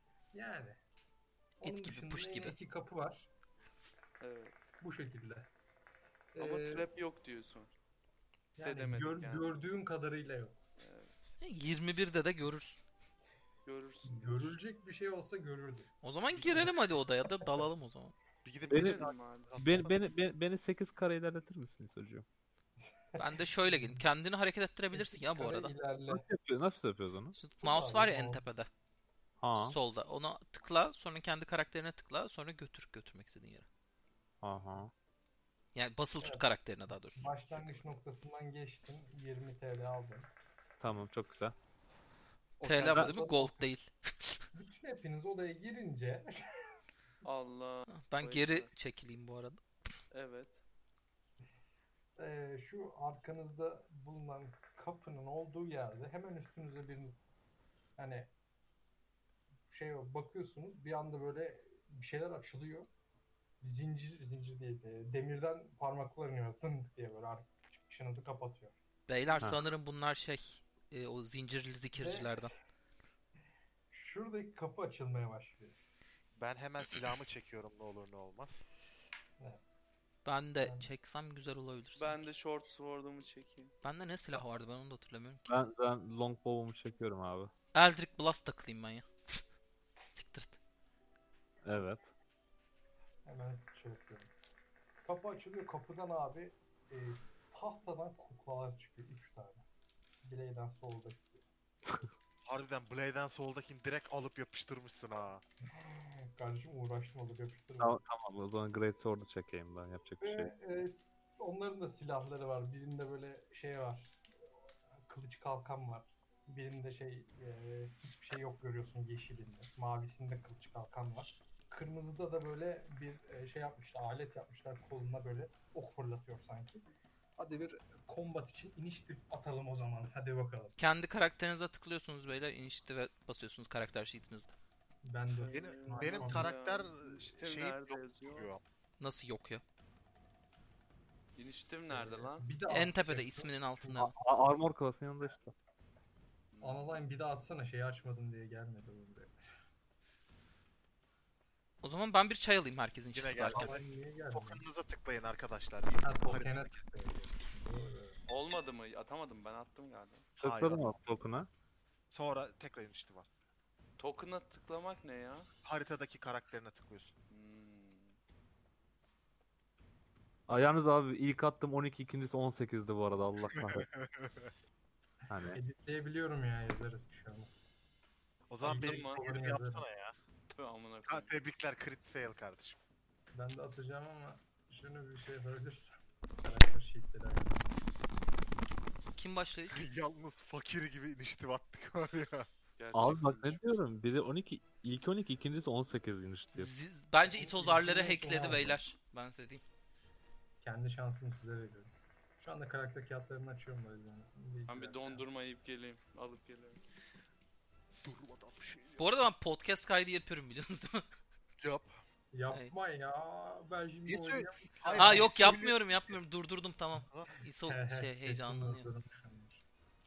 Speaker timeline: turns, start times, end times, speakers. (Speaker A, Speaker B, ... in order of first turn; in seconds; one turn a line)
Speaker A: 0.3-0.8
Speaker A: 1.6-3.3
Speaker B: 1.6-2.6
Speaker C: 4.2-4.6
Speaker A: 4.8-5.5
Speaker A: 6.3-6.9
Speaker C: 6.4-7.7
Speaker A: 8.6-10.6
Speaker C: 8.6-9.5
Speaker C: 10.8-11.2
Speaker B: 11.4-12.8
Speaker C: 13.7-14.5
Speaker A: 14.1-15.9
Speaker B: 16.0-18.1
Speaker D: 16.3-16.7
Speaker A: 16.5-16.7
Speaker D: 18.4-20.0
Speaker E: 18.7-19.1
Speaker C: 18.9-19.5
Speaker E: 19.6-22.2
Speaker A: 22.8-24.1
Speaker B: 23.2-25.7
Speaker A: 24.9-26.3
Speaker E: 26.1-27.4
Speaker B: 27.4-28.7
Speaker A: 27.6-28.4
Speaker E: 29.4-29.8
Speaker B: 29.6-33.7
Speaker E: 34.4-34.9
Speaker B: 35.8-37.9
Speaker A: 36.2-36.5
Speaker A: 37.1-40.3
Speaker E: 40.8-41.5
Speaker D: 42.6-43.1
Speaker B: 42.6-44.4
Speaker A: 42.9-43.7
Speaker A: 44.5-46.4
Speaker C: 47.2-48.7
Speaker B: 47.9-49.6
Speaker C: 50.1-50.6
Speaker A: 52.2-57.3
Speaker A: 58.0-58.3
Speaker A: 59.7-62.9
Speaker A: 63.6-68.8
Speaker B: 69.1-72.5
Speaker A: 72.0-72.5
Speaker A: 73.9-75.8
Speaker D: 76.4-78.6
Speaker A: 79.4-79.7
Speaker B: 80.2-82.2
Speaker A: 80.6-80.9
Speaker C: 82.0-83.7
Speaker B: 83.8-85.5
Speaker E: 85.5-87.5
Speaker B: 87.7-89.4
Speaker B: 90.1-90.6
Speaker E: 91.6-92.1
Speaker A: 93.2-94.3
Speaker A: 95.0-99.6
Speaker A: 100.2-101.5
Speaker D: 102.4-105.4
Speaker A: 105.7-108.0
Speaker E: 107.8-110.5
Speaker A: 110.2-114.2
Speaker A: 115.1-126.8
Speaker A: 127.4-130.8
Speaker B: 130.8-134.5
Speaker A: 135.0-136.6
Speaker C: 135.3-138.5
Speaker D: 135.5-138.6
Speaker B: 139.0-139.6
Speaker C: 141.4-142.5
Speaker A: 141.9-144.1
Speaker B: 142.7-144.1
Speaker E: 143.9-145.6
Speaker C: 146.5-147.0
Speaker A: 146.6-149.3
Speaker B: 151.8-153.8
Speaker D: 153.1-156.7
Speaker A: 153.5-154.7
Speaker A: 156.0-158.2
Speaker C: 158.3-160.2
Speaker E: 160.4-161.5
Speaker D: 160.4-160.8
Speaker D: 162.1-163.3
Speaker C: 164.0-165.5
Speaker D: 165.6-167.1
Speaker C: 167.3-168.1
Speaker E: 170.5-173.9
Speaker D: 173.6-174.5
Speaker E: 175.3-175.6
Speaker A: 175.5-177.7
Speaker D: 178.5-180.2
Speaker A: 178.6-179.8
Speaker C: 178.7-179.2
Speaker C: 180.5-181.3
Speaker D: 181.1-182.8
Speaker A: 183.3-187.6
Speaker B: 189.2-189.8
Speaker D: 189.7-192.5
Speaker C: 192.8-193.5
Speaker E: 192.9-196.7
Speaker B: 196.5-199.6
Speaker A: 197.2-198.8
Speaker A: 200.6-205.2
Speaker C: 204.7-206.8
Speaker D: 208.0-209.1
Speaker B: 209.0-211.0
Speaker D: 211.6-212.0
Speaker A: 212.3-215.5
Speaker D: 214.1-216.2
Speaker B: 214.9-218.9
Speaker A: 217.7-219.6